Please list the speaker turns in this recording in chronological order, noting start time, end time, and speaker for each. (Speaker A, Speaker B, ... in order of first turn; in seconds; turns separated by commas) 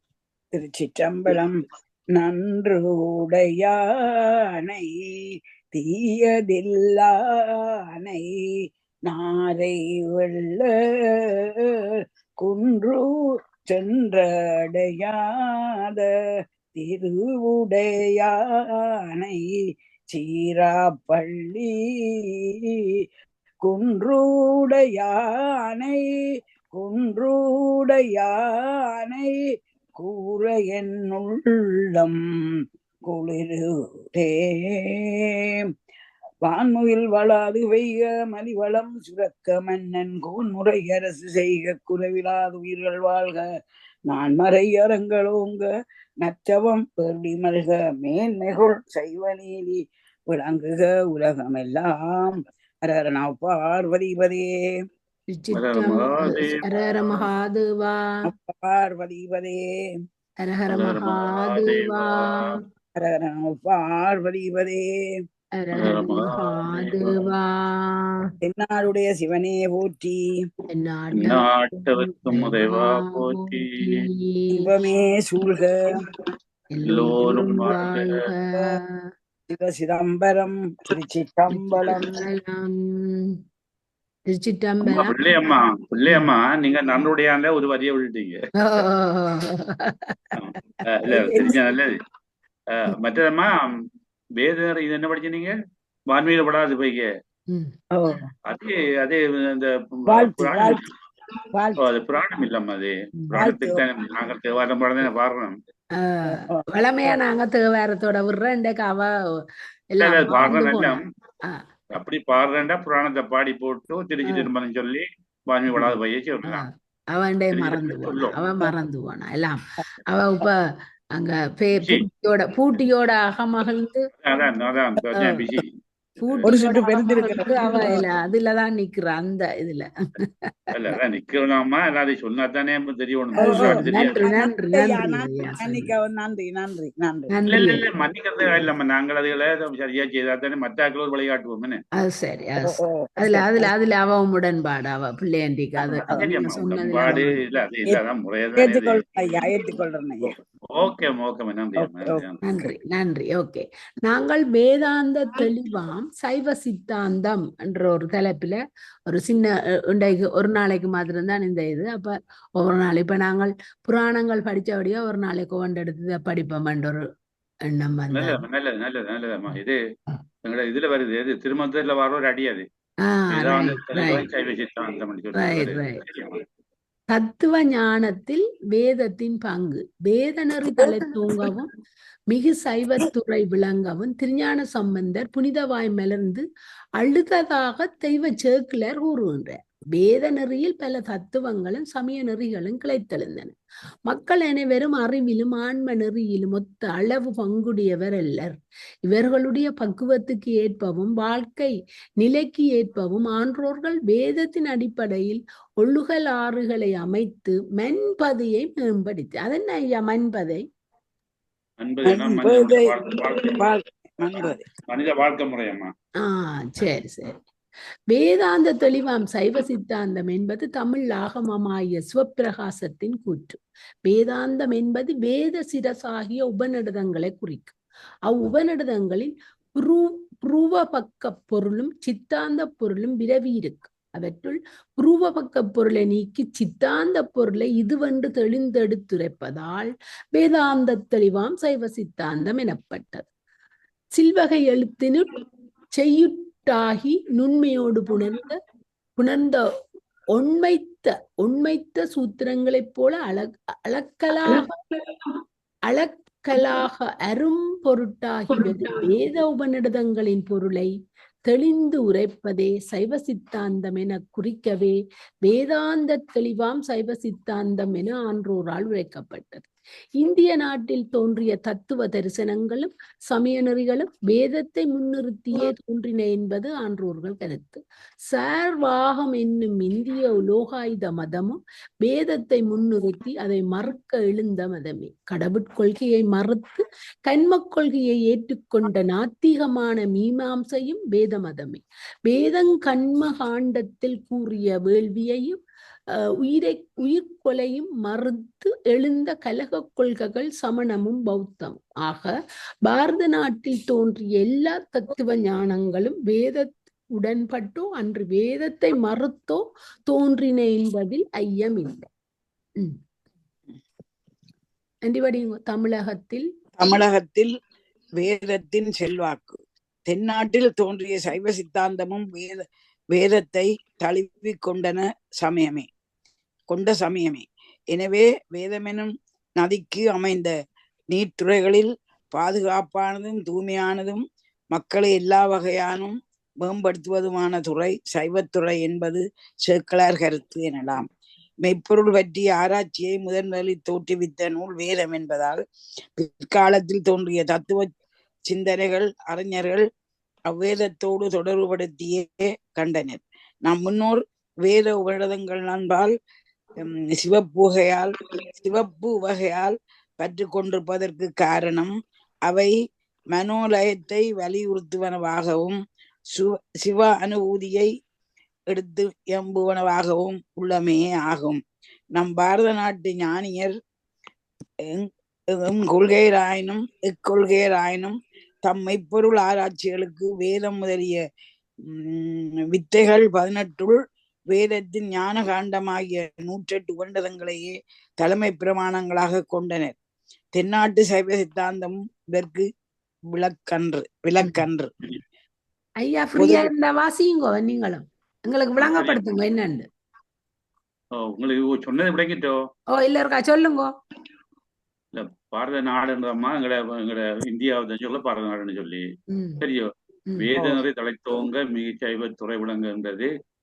Speaker A: 0.5-1.6, Speaker A: 2.1-8.3, Speaker A: 9.1-11.7, Speaker A: 12.4-15.2, Speaker A: 15.8-16.1, Speaker A: 16.8-19.6, Speaker A: 20.1-22.7, Speaker A: 23.6-26.0, Speaker A: 26.7-29.4, Speaker A: 30.0-35.6, Speaker A: 36.4-43.4, Speaker A: 44.1-45.7, Speaker A: 46.2-54.7, Speaker B: 55.3-58.2, Speaker C: 55.5-57.3, Speaker A: 58.2-59.6, Speaker B: 60.4-62.6, Speaker C: 60.7-62.5, Speaker A: 63.0-65.2, Speaker B: 65.6-68.2, Speaker C: 65.8-67.2, Speaker A: 68.4-70.3, Speaker B: 70.7-74.8, Speaker C: 71.2-74.0, Speaker A: 74.5-75.9, Speaker B: 76.7-79.1, Speaker C: 76.9-78.2, Speaker A: 78.5-78.8, Speaker A: 79.5-82.2, Speaker B: 81.5-83.3, Speaker B: 84.3-85.4, Speaker C: 84.8-88.4, Speaker B: 88.6-90.2, Speaker C: 90.3-92.0, Speaker A: 91.1-91.6, Speaker C: 92.7-93.8, Speaker C: 94.4-95.6, Speaker C: 96.1-97.1, Speaker A: 97.9-98.3, Speaker C: 98.5-100.8, Speaker A: 100.1-100.8, Speaker A: 101.5-101.8, Speaker C: 101.8-105.6, Speaker A: 103.4-103.8, Speaker B: 106.0-111.6, Speaker A: 106.3-107.2, Speaker C: 110.0-111.0, Speaker C: 111.9-116.7, Speaker B: 116.5-120.6, Speaker C: 117.5-118.5, Speaker B: 121.1-124.1, Speaker C: 121.8-122.0, Speaker C: 124.2-125.7, Speaker B: 125.2-125.4, Speaker B: 126.2-130.5, Speaker C: 126.2-126.6, Speaker A: 126.4-128.0, Speaker C: 130.7-134.2, Speaker A: 133.3-137.3, Speaker B: 133.4-135.9, Speaker B: 137.3-137.8, Speaker C: 137.5-141.8, Speaker B: 142.0-147.3, Speaker A: 142.6-143.7, Speaker A: 145.9-146.3, Speaker C: 146.1-149.0, Speaker A: 148.6-150.3, Speaker C: 150.3-152.4, Speaker A: 151.8-152.2, Speaker B: 152.4-167.0, Speaker B: 167.7-168.4, Speaker C: 168.1-169.8, Speaker C: 170.4-172.7, Speaker B: 173.1-174.2, Speaker C: 173.3-176.4, Speaker B: 175.4-176.0, Speaker B: 177.1-181.7, Speaker A: 180.8-181.5, Speaker B: 182.3-186.4, Speaker B: 187.0-193.6, Speaker B: 194.1-210.7, Speaker C: 211.8-213.6, Speaker A: 212.1-214.7, Speaker C: 214.9-215.9, Speaker B: 216.2-217.4, Speaker B: 218.1-227.8, Speaker B: 228.3-243.3, Speaker B: 244.1-245.4, Speaker B: 245.9-248.6, Speaker B: 249.2-249.7, Speaker B: 250.3-254.7, Speaker B: 255.9-260.9, Speaker B: 261.4-269.7, Speaker B: 270.2-295.6, Speaker B: 296.1-302.3, Speaker B: 302.8-312.1, Speaker B: 315.1-316.5, Speaker A: 316.8-317.5, Speaker A: 318.2-325.9, Speaker A: 326.7-330.5, Speaker A: 331.1-341.1, Speaker A: 341.6-345.6, Speaker A: 346.2-347.9, Speaker A: 348.5-349.8, Speaker A: 350.5-356.1, Speaker A: 356.8-361.9, Speaker A: 362.4-362.7, Speaker A: 363.3-365.8, Speaker A: 366.3-367.9, Speaker A: 368.7-371.6, Speaker A: 372.1-373.7, Speaker A: 374.8-381.2, Speaker A: 381.9-384.0, Speaker A: 384.5-389.9, Speaker A: 390.5-392.7, Speaker A: 393.3-394.9, Speaker B: 396.0-399.9, Speaker A: 396.4-396.7, Speaker C: 398.8-399.2, Speaker C: 401.2-402.6, Speaker B: 402.9-403.9, Speaker C: 405.1-409.1, Speaker B: 409.3-409.6, Speaker C: 409.6-413.3, Speaker B: 410.3-410.8